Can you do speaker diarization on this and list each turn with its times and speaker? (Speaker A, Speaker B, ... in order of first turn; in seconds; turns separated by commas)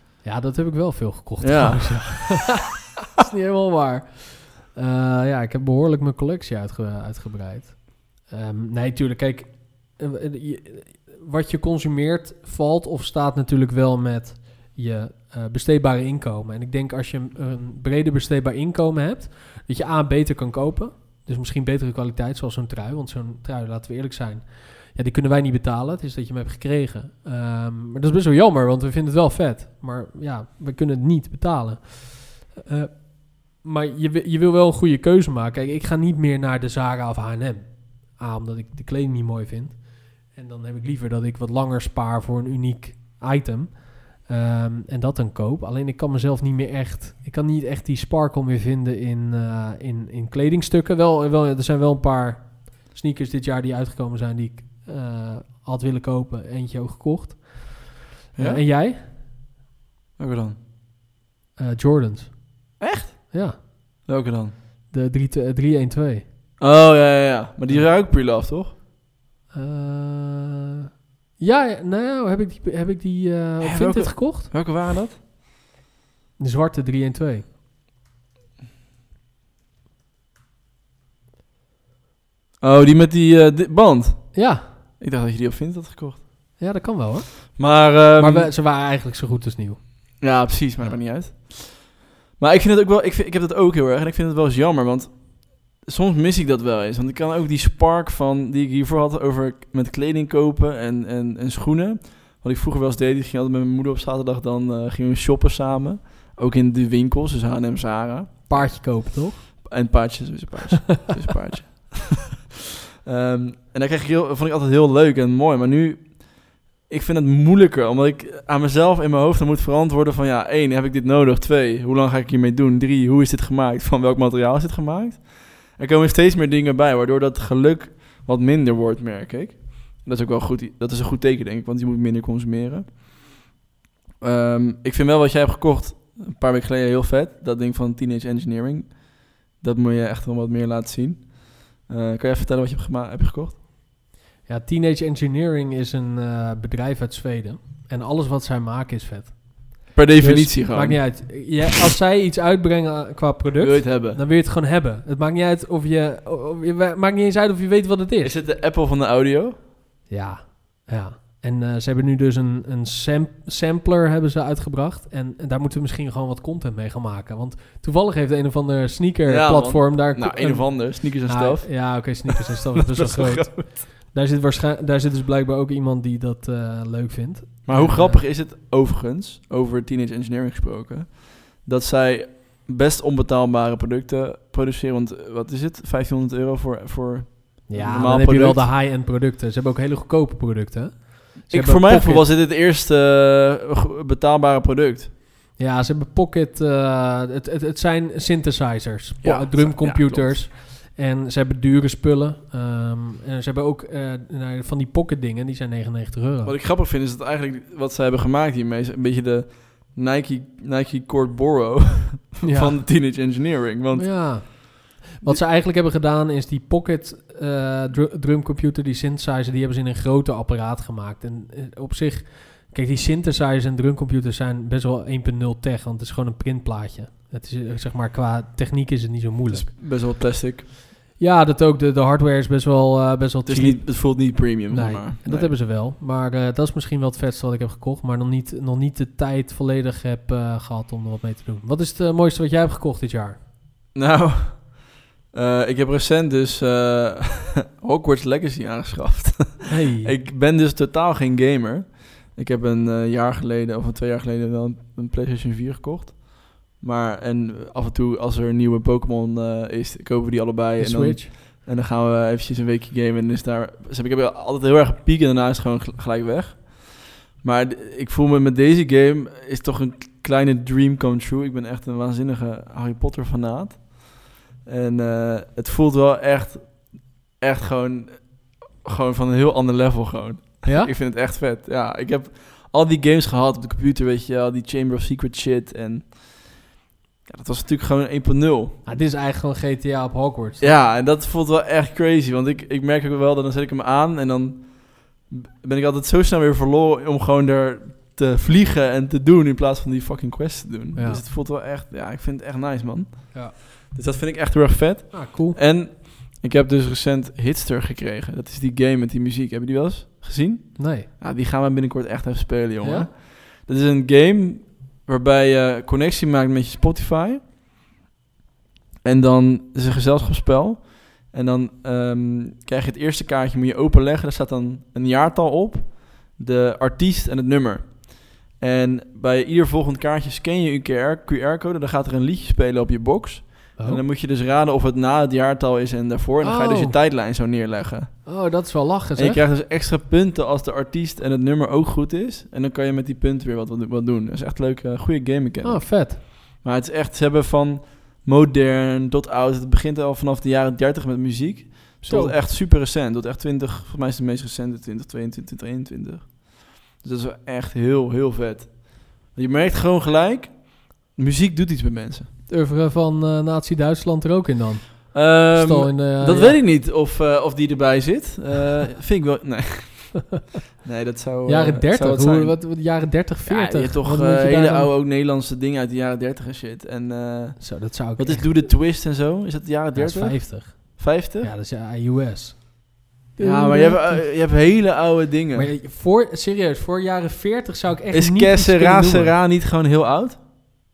Speaker A: 0.2-59.2, Speaker B: 1.4-2.5, Speaker B: 58.3-58.6, Speaker B: 60.2-60.6, Speaker A: 61.6-62.5, Speaker B: 62.8-64.5, Speaker A: 63.3-64.1, Speaker A: 64.9-66.2, Speaker B: 66.6-68.7, Speaker A: 69.5-70.7, Speaker A: 71.4-74.8, Speaker B: 73.6-75.2, Speaker A: 76.4-77.5, Speaker B: 82.6-86.3, Speaker A: 84.3-84.8, Speaker A: 86.6-90.2, Speaker B: 87.6-88.5, Speaker B: 90.2-112.4, Speaker A: 108.5-109.7, Speaker B: 113.0-133.0, Speaker B: 134.2-143.6, Speaker A: 144.4-158.4, Speaker B: 149.9-151.2, Speaker B: 153.6-154.2, Speaker B: 158.2-159.6, Speaker A: 160.1-178.2, Speaker B: 169.2-173.8, Speaker B: 177.7-188.7, Speaker A: 187.7-192.3, Speaker B: 191.5-195.1, Speaker A: 195.6-206.6, Speaker B: 199.2-200.4, Speaker B: 206.4-214.6, Speaker A: 212.4-212.9, Speaker A: 213.9-229.7, Speaker B: 229.5-230.7, Speaker A: 231.2-243.4, Speaker B: 233.4-235.5, Speaker B: 243.9-286.7, Speaker A: 249.7-250.1, Speaker A: 260.8-261.3, Speaker A: 280.6-280.9, Speaker B: 287.2-289.0, Speaker A: 288.9-290.7, Speaker B: 290.6-317.4, Speaker A: 300.9-301.2, Speaker A: 305.1-305.6, Speaker A: 310.8-311.1, Speaker A: 312.8-313.1, Speaker B: 319.0-338.4, Speaker A: 333.8-334.0, Speaker A: 336.4-336.9, Speaker A: 338.2-339.4, Speaker B: 339.1-362.3, Speaker A: 345.6-346.2, Speaker A: 352.0-352.4, Speaker A: 362.5-366.6, Speaker B: 365.1-372.6, Speaker A: 371.4-374.9, Speaker B: 373.4-381.5, Speaker A: 377.6-378.6, Speaker A: 379.9-384.2, Speaker B: 383.4-385.7, Speaker A: 385.5-389.4, Speaker B: 388.1-390.4